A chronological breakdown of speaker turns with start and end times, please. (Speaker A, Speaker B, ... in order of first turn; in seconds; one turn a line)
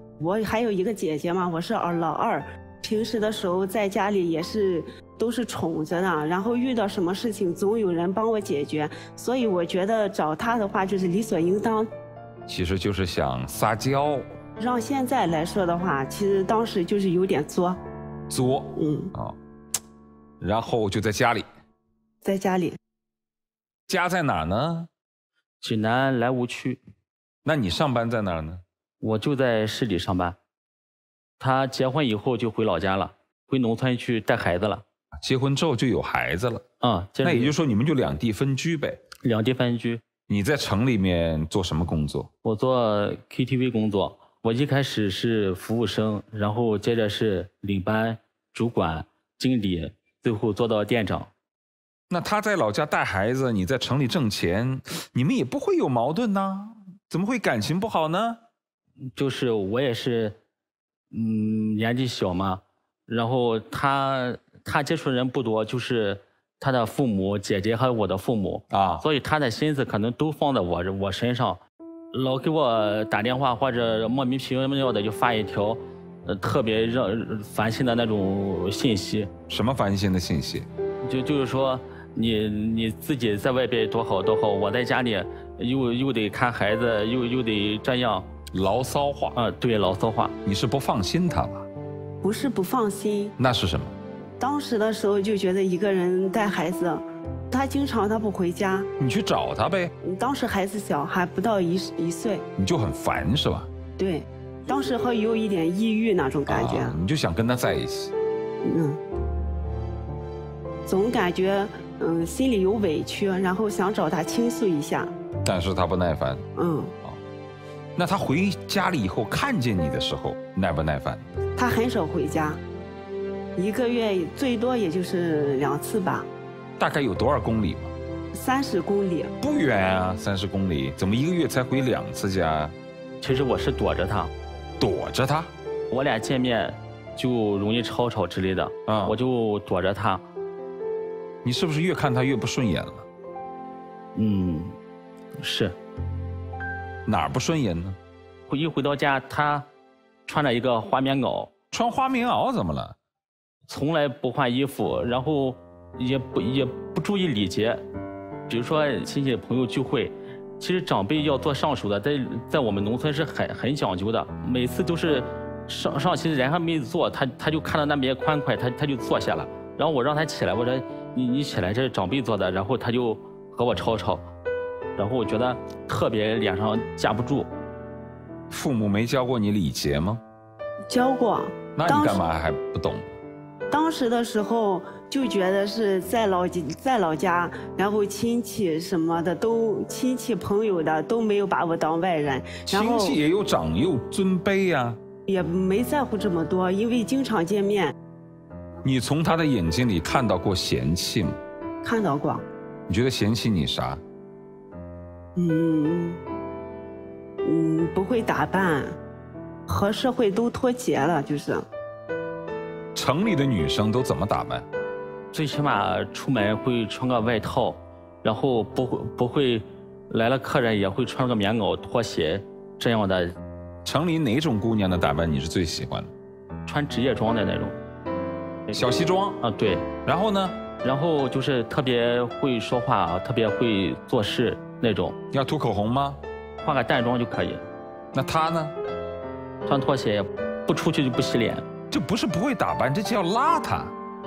Speaker A: 0.2-11.9
Speaker B: 12.5-14.3
Speaker A: 14.6-17.8
Speaker B: 18.3-19.4
Speaker A: 18.8-19.1
Speaker B: 20.4-21.5
Speaker A: 22.2-22.8
Speaker B: 23.9-24.9
Speaker C: 25.6-26.8
Speaker B: 27.4-28.6
Speaker C: 29.0-30.4
Speaker C: 31.4-34.8
Speaker B: 35.2-36.6
Speaker C: 36.8-37.5
Speaker B: 37.2-39.0
Speaker C: 39.2-40.0
Speaker B: 40.3-42.3
Speaker C: 42.4-51.3
Speaker B: 52.1-58.4
Speaker C: 59.1-60.4
Speaker C: 61.1-71.6
Speaker B: 68.7-69.0
Speaker C: 72.1-79.3
Speaker B: 79.5-80.7
Speaker C: 81.0-88.3
Speaker B: 88.5-89.4
Speaker C: 89.3-90.3
Speaker B: 90.4-91.7
Speaker A: 92.2-93.3
Speaker B: 93.4-94.0
Speaker A: 94.4-98.9
Speaker B: 99.0-99.9
Speaker A: 100.0-102.4
Speaker B: 102.6-103.7
Speaker A: 104.0-107.0
Speaker B: 106.5-108.1
Speaker A: 108.6-109.0
Speaker A: 110.9-115.1
Speaker B: 115.4-116.4
Speaker A: 116.6-116.9
Speaker B: 118.0-121.2
Speaker A: 121.6-122.6
Speaker A: 123.6-126.3
Speaker B: 126.8-127.9
Speaker A: 128.3-129.3
Speaker B: 129.4-132.8
Speaker C: 133.2-134.3
Speaker B: 134.8-135.5
Speaker C: 135.9-140.2
Speaker B: 138.9-139.2
Speaker B: 141.4-143.1
Speaker C: 144.2-144.8
Speaker C: 145.4-145.7
Speaker B: 147.1-148.0
Speaker C: 148.5-149.7
Speaker C: 150.3-151.5
Speaker B: 151.7-153.0
Speaker C: 153.7-157.8
Speaker C: 158.5-174.3
Speaker C: 175.0-177.5
Speaker B: 178.5-180.2
Speaker A: 180.9-182.2
Speaker B: 181.8-183.2
Speaker A: 183.7-193.2
Speaker B: 192.7-195.0
Speaker A: 195.3-197.9
Speaker B: 198.8-201.4
Speaker A: 201.8-202.4
Speaker B: 202.9-204.0
Speaker A: 205.4-206.2
Speaker A: 207.4-208.9
Speaker A: 209.7-211.7
Speaker B: 212.9-214.7
Speaker C: 215.3-223.3
Speaker B: 223.8-226.1
Speaker C: 226.7-227.8
Speaker C: 228.7-229.9
Speaker B: 228.7-229.4
Speaker B: 230.1-230.6
Speaker C: 230.8-235.2
Speaker B: 235.3-236.2
Speaker C: 236.6-237.6
Speaker B: 238.1-238.8
Speaker C: 239.7-241.7
Speaker B: 241.9-243.9